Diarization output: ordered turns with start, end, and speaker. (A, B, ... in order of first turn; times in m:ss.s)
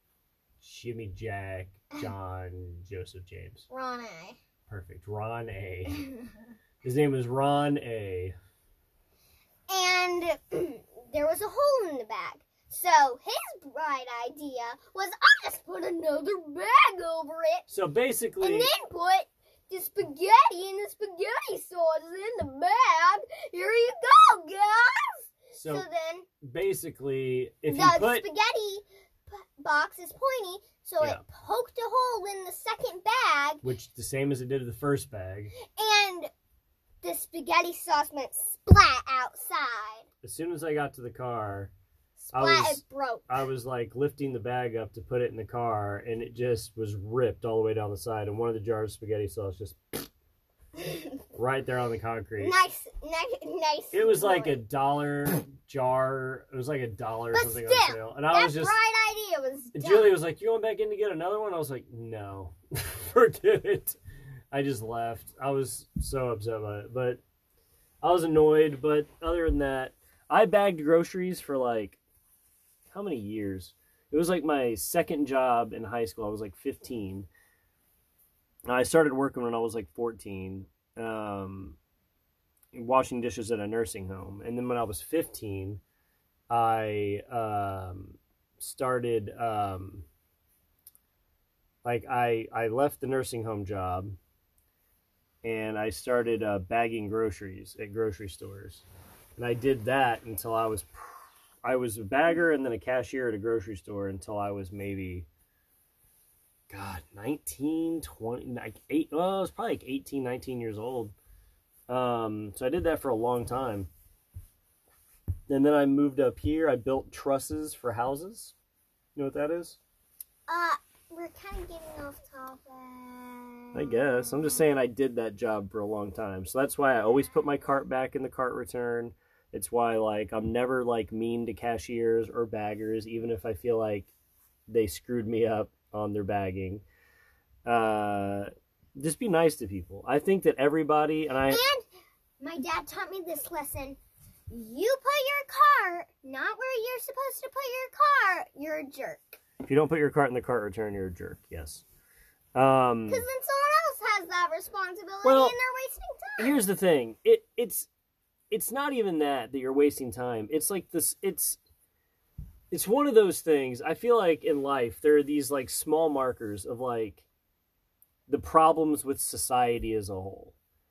0:00.6-0:03.7 A
0:03.7-0:04.4 B
0:04.7-0:06.1 A
0:05.9-0:06.2 B
0:06.8-0:08.4 A
0:09.7-0:17.7 B
0:17.7-0:18.7 A
0:18.4-0:26.3 B
0:25.5-0:25.9 A
0:26.4-0:28.3 A
0:27.7-0:33.6 B
0:33.6-0:35.5 A
0:35.6-0:36.3 B
0:37.0-0:40.1 B
0:40.2-0:41.7 A
0:42.2-0:43.4 B
0:42.3-0:50.1 A
0:50.8-0:51.1 B
0:51.4-0:52.6 A
0:52.4-0:54.6 B
0:53.9-0:58.8 A
0:57.3-1:00.2 B
0:59.7-1:04.0 A
1:04.5-1:07.2 A
1:08.0-1:12.0 A
1:12.9-1:17.3 A
1:18.7-1:21.8 A
1:22.7-1:25.8 A
1:26.5-1:30.1 A
1:31.8-1:34.2 A
1:35.4-1:38.9 A
1:39.4-1:45.3 A
1:46.7-1:51.2 A
1:51.9-1:53.9 A
1:55.5-1:58.6 A
1:59.2-1:59.8 A
2:00.5-2:04.4 B
2:03.7-2:14.1 A
2:14.7-2:16.8 A
2:17.6-2:21.6 A
2:21.5-2:21.8 B
2:22.4-2:24.0 B
2:24.5-2:29.4 B
2:29.6-2:31.8 A
2:32.6-2:33.2 A
2:33.1-2:36.6 B
2:35.2-2:35.6 A
2:36.4-2:37.9 A
2:38.5-2:41.6 A
2:42.7-2:47.2 A
2:48.3-2:50.6 A